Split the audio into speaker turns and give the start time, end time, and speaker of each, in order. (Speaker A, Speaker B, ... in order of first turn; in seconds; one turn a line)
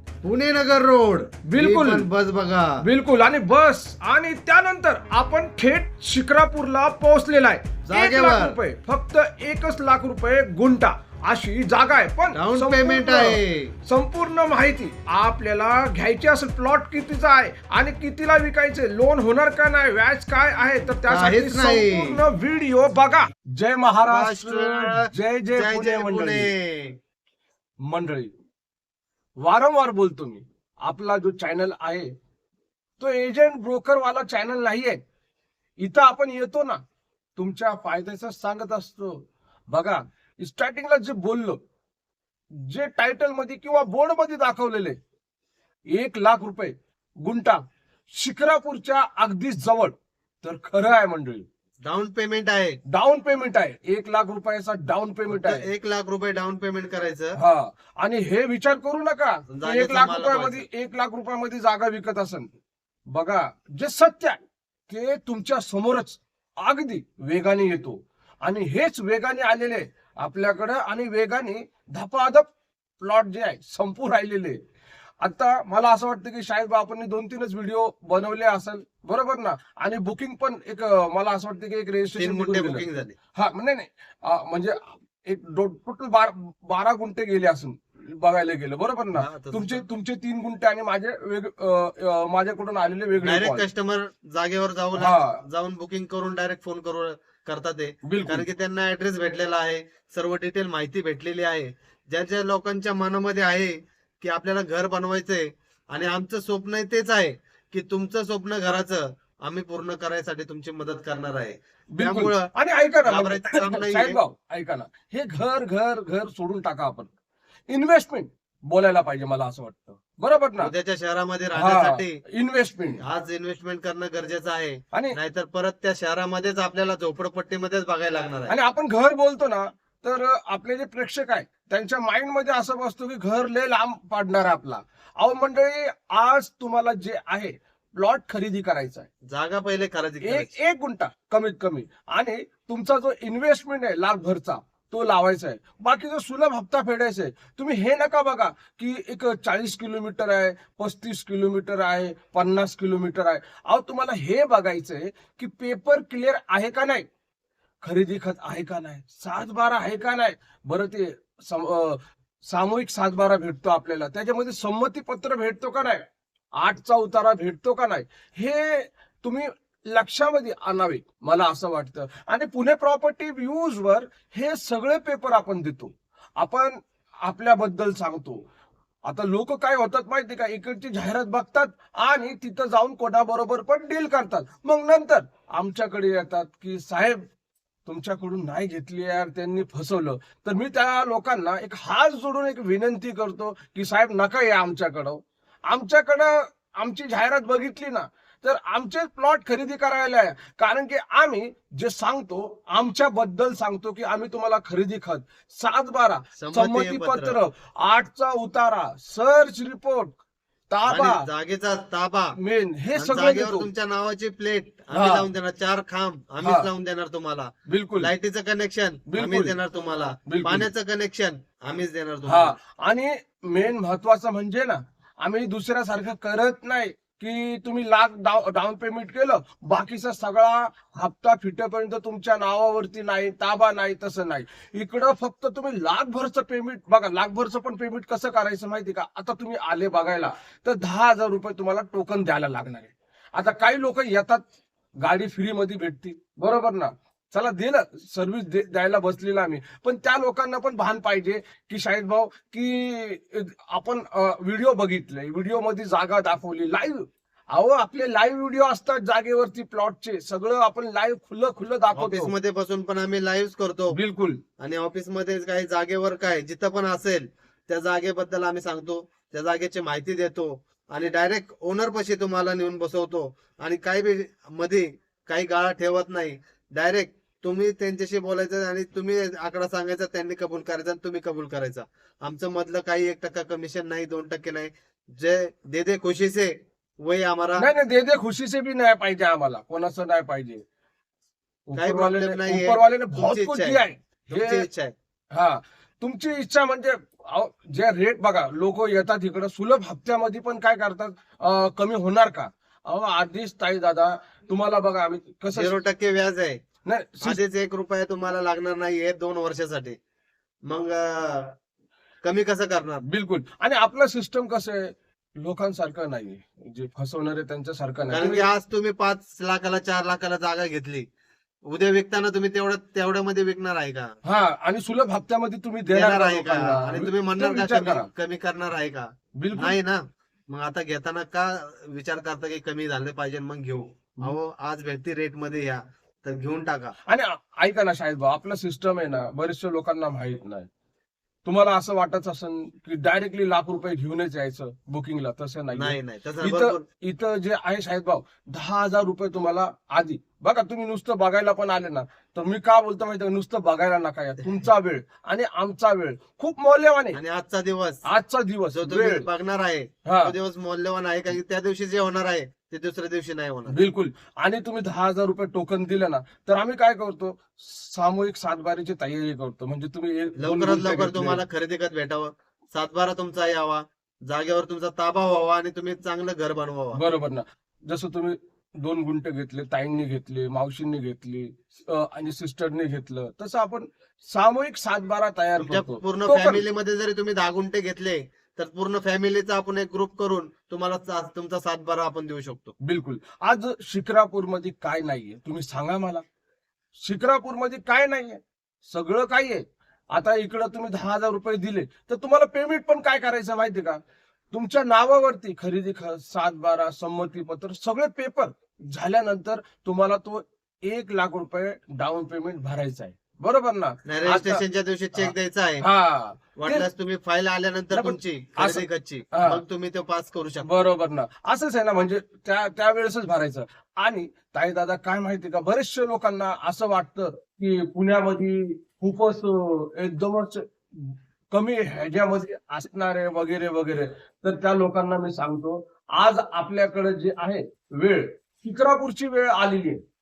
Speaker A: 0.2-2.8
Speaker B: 1.4-2.1
Speaker B: 2.8-26.5
Speaker A: 7.8-8.6
Speaker A: 12.3-13.7
Speaker A: 21.1-22.2
Speaker A: 24.1-27.0
Speaker B: 27.8-28.3
Speaker B: 29.4-32.1
Speaker B: 33.0-35.0
Speaker B: 35.8-36.8
Speaker B: 37.4-39.2
Speaker B: 39.7-41.6
Speaker B: 42.5-45.0
Speaker B: 45.9-47.6
Speaker B: 48.1-51.5
Speaker A: 51.8-52.8
Speaker B: 52.9-55.7
Speaker A: 55.3-57.4
Speaker B: 57.4-62.5
Speaker A: 59.5-60.6
Speaker B: 63.1-74.6
Speaker B: 75.2-93.7
Speaker A: 82.2-83.1
Speaker A: 89.1-89.8
Speaker A: 93.2-112.5
Speaker B: 95.0-95.4
Speaker B: 98.0-98.4
Speaker B: 111.9-117.1
Speaker A: 113.0-114.2
Speaker B: 117.7-120.7
Speaker A: 120.6-122.2
Speaker B: 121.5-123.0
Speaker A: 123.0-128.5
Speaker B: 128.5-139.1
Speaker A: 139.3-140.5
Speaker B: 140.2-157.1
Speaker B: 157.8-166.0
Speaker B: 166.6-178.4
Speaker B: 179.1-187.2
Speaker B: 187.8-210.1
Speaker A: 206.4-207.4
Speaker B: 210.7-211.2
Speaker A: 210.9-212.3
Speaker B: 212.4-213.7
Speaker A: 212.9-222.5
Speaker B: 214.9-215.3
Speaker B: 216.4-216.7
Speaker B: 217.7-218.1
Speaker B: 219.1-219.6
Speaker B: 220.3-220.7
Speaker B: 222.3-244.4
Speaker B: 245.0-262.3
Speaker A: 261.9-264.0
Speaker B: 263.9-264.4
Speaker A: 264.6-287.6
Speaker B: 287.6-290.6
Speaker B: 291.7-294.6
Speaker A: 291.8-294.9
Speaker B: 295.3-305.8
Speaker A: 305.5-306.6
Speaker B: 306.9-307.4
Speaker A: 307.2-309.9
Speaker A: 310.6-311.5
Speaker A: 312.2-313.0
Speaker B: 313.1-318.5
Speaker A: 318.1-321.1
Speaker A: 321.6-324.1
Speaker B: 324.2-328.1
Speaker A: 325.9-336.9
Speaker B: 329.4-329.8
Speaker B: 337.1-340.7
Speaker B: 341.4-357.2
Speaker A: 345.7-346.8
Speaker A: 357.1-358.0
Speaker B: 358.0-359.3
Speaker A: 358.7-363.8
Speaker B: 360.1-360.3
Speaker B: 363.7-371.4
Speaker A: 370.4-377.0
Speaker B: 376.9-386.6
Speaker A: 385.6-392.7
Speaker B: 392.8-396.2
Speaker B: 397.0-404.0
Speaker B: 404.5-414.6
Speaker A: 414.1-415.8
Speaker B: 415.1-416.9
Speaker A: 416.6-420.7
Speaker B: 417.9-419.6
Speaker B: 420.6-440.0